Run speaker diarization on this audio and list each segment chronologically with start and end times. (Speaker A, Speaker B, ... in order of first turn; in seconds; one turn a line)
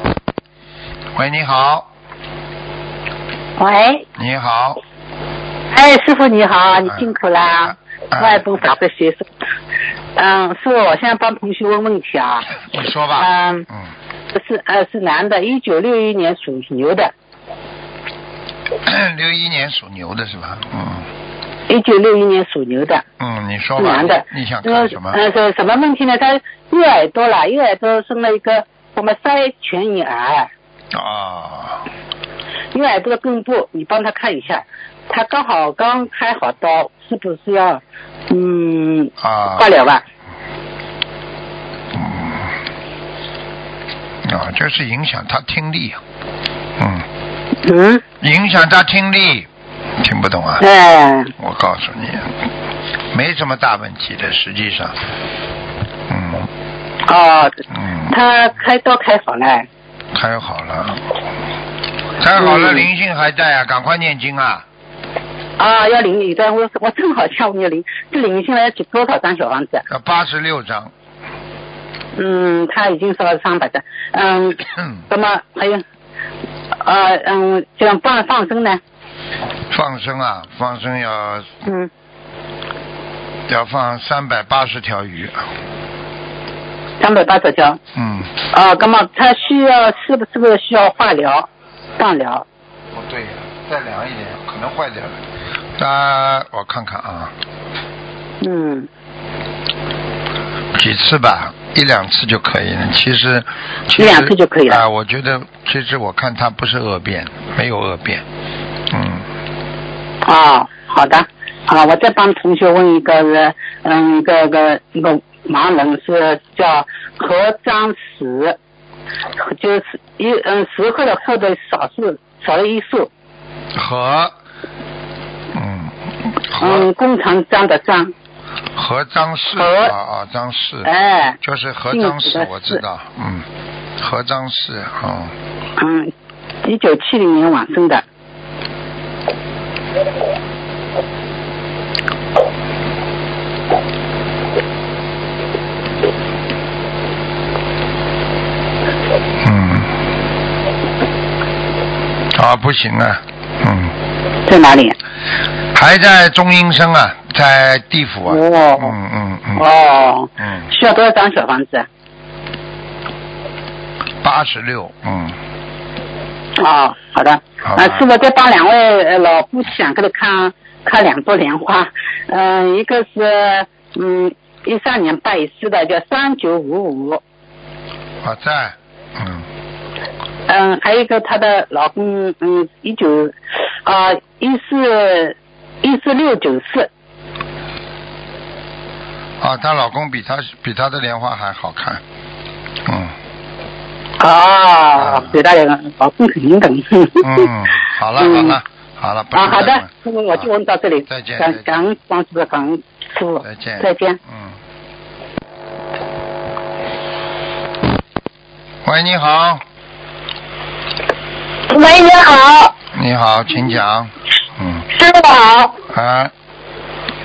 Speaker A: 1.1-1.9
Speaker B: 3.6-4.0
Speaker A: 4.2-4.8
Speaker B: 5.7-9.3
Speaker A: 8.1-8.6
Speaker B: 10.2-12.6
Speaker A: 12.6-13.9
Speaker B: 13.2-13.7
Speaker B: 14.3-17.1
Speaker A: 18.8-21.1
Speaker B: 21.7-23.0
Speaker A: 23.2-25.2
Speaker B: 23.8-30.5
Speaker A: 30.9-31.8
Speaker B: 32.7-40.0
Speaker A: 39.2-39.7
Speaker A: 41.9-42.5
Speaker A: 44.2-46.0
Speaker A: 46.8-47.1
Speaker B: 47.6-48.0
Speaker A: 48.2-49.5
Speaker A: 50.0-50.6
Speaker B: 50.6-51.3
Speaker A: 51.4-52.4
Speaker A: 53.1-55.0
Speaker A: 56.1-56.5
Speaker B: 57.1-59.7
Speaker A: 57.8-58.1
Speaker A: 60.1-61.1
Speaker A: 62.2-64.7
Speaker B: 62.4-62.9
Speaker B: 65.6-69.8
Speaker A: 69.9-70.9
Speaker B: 72.2-75.8
Speaker B: 76.8-78.8
Speaker A: 79.7-81.6
Speaker A: 83.5-85.5
Speaker B: 87.0-87.8
Speaker A: 88.0-88.4
Speaker B: 88.5-91.5
Speaker B: 92.0-92.5
Speaker A: 92.9-95.2
Speaker A: 95.8-97.3
Speaker B: 98.4-98.9
Speaker A: 100.7-108.2
Speaker B: 104.0-104.8
Speaker A: 108.9-109.3
Speaker B: 110.2-118.6
Speaker B: 119.4-123.1
Speaker A: 123.7-124.4
Speaker A: 125.5-126.0
Speaker A: 126.5-126.9
Speaker B: 126.6-128.1
Speaker A: 128.7-130.9
Speaker B: 129.6-129.9
Speaker B: 130.8-131.4
Speaker A: 131.4-133.5
Speaker B: 131.9-132.8
Speaker A: 134.0-135.3
Speaker B: 135.8-136.1
Speaker B: 136.6-138.0
Speaker A: 149.4-150.0
Speaker A: 152.3-154.0
Speaker B: 154.5-155.0
Speaker A: 155.7-159.7
Speaker B: 158.3-158.9
Speaker B: 159.6-161.9
Speaker A: 164.2-165.4
Speaker B: 166.6-177.2
Speaker A: 167.6-168.1
Speaker A: 178.2-179.5
Speaker B: 180.5-186.9
Speaker A: 189.4-192.0
Speaker A: 192.8-193.2
Speaker B: 194.2-197.5
Speaker A: 195.0-195.3
Speaker A: 197.2-200.5
Speaker B: 198.2-198.6
Speaker B: 199.3-204.2
Speaker A: 201.1-201.8
Speaker A: 203.4-204.6
Speaker A: 208.8-209.6
Speaker C: 211.7-212.7
Speaker A: 212.9-214.9
Speaker C: 214.9-215.8
Speaker A: 215.9-216.3